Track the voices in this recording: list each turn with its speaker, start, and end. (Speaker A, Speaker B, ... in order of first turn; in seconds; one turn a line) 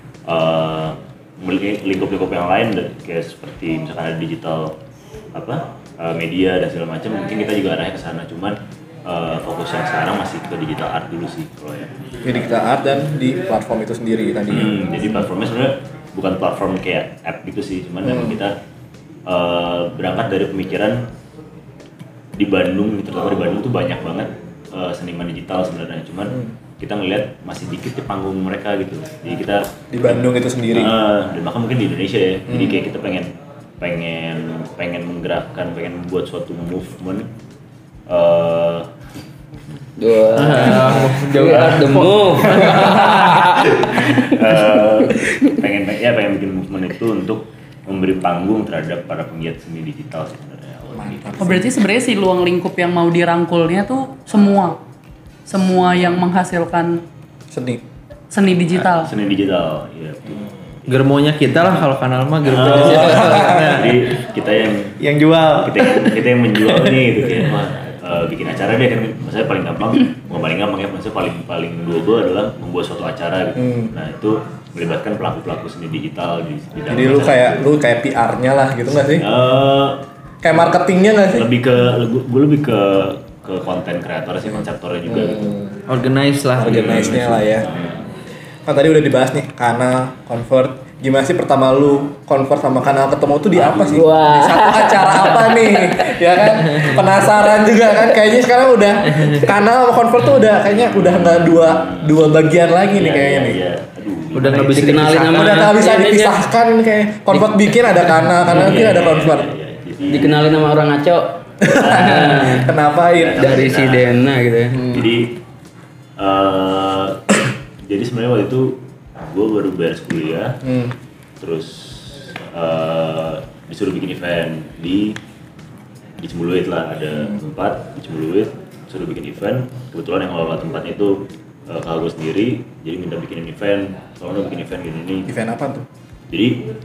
Speaker A: 0.3-4.8
Speaker A: 5.3-11.9
Speaker B: 12.2-14.8
Speaker A: 14.5-18.5
Speaker B: 18.0-18.4
Speaker A: 19.2-21.0
Speaker A: 22.4-37.3
Speaker B: 29.9-30.9
Speaker B: 32.5-32.8
Speaker A: 38.1-38.9
Speaker C: 40.0-44.3
Speaker D: 40.3-43.1
Speaker A: 40.4-51.6
Speaker B: 50.9-51.7
Speaker E: 51.4-54.8
Speaker E: 55.5-57.0
Speaker B: 57.5-57.8
Speaker E: 58.3-59.1
Speaker A: 58.7-60.9
Speaker D: 60.9-64.1
Speaker A: 62.4-65.0
Speaker C: 62.7-63.7
Speaker B: 63.0-63.7
Speaker D: 65.0-67.0
Speaker A: 65.6-77.7
Speaker B: 73.6-73.9
Speaker B: 76.9-79.3
Speaker A: 79.0-80.0
Speaker B: 80.4-81.5
Speaker A: 81.3-85.5
Speaker B: 85.1-85.8
Speaker D: 85.9-87.4
Speaker B: 86.6-87.7
Speaker A: 86.6-88.0
Speaker B: 88.7-103.6
Speaker A: 93.5-94.0
Speaker C: 93.8-96.1
Speaker D: 96.6-97.0
Speaker D: 99.1-99.4
Speaker A: 100.6-102.3
Speaker A: 102.9-105.1
Speaker D: 104.3-105.7
Speaker C: 104.7-106.4
Speaker B: 105.3-109.5
Speaker A: 108.5-110.5
Speaker C: 110.1-112.8
Speaker B: 111.6-113.6
Speaker A: 111.7-114.2
Speaker C: 113.3-115.0
Speaker B: 114.7-115.1
Speaker A: 114.8-115.4
Speaker A: 116.2-120.6
Speaker B: 120.6-120.9
Speaker A: 121.4-125.2
Speaker A: 126.2-135.3
Speaker B: 135.3-135.9
Speaker A: 136.3-136.7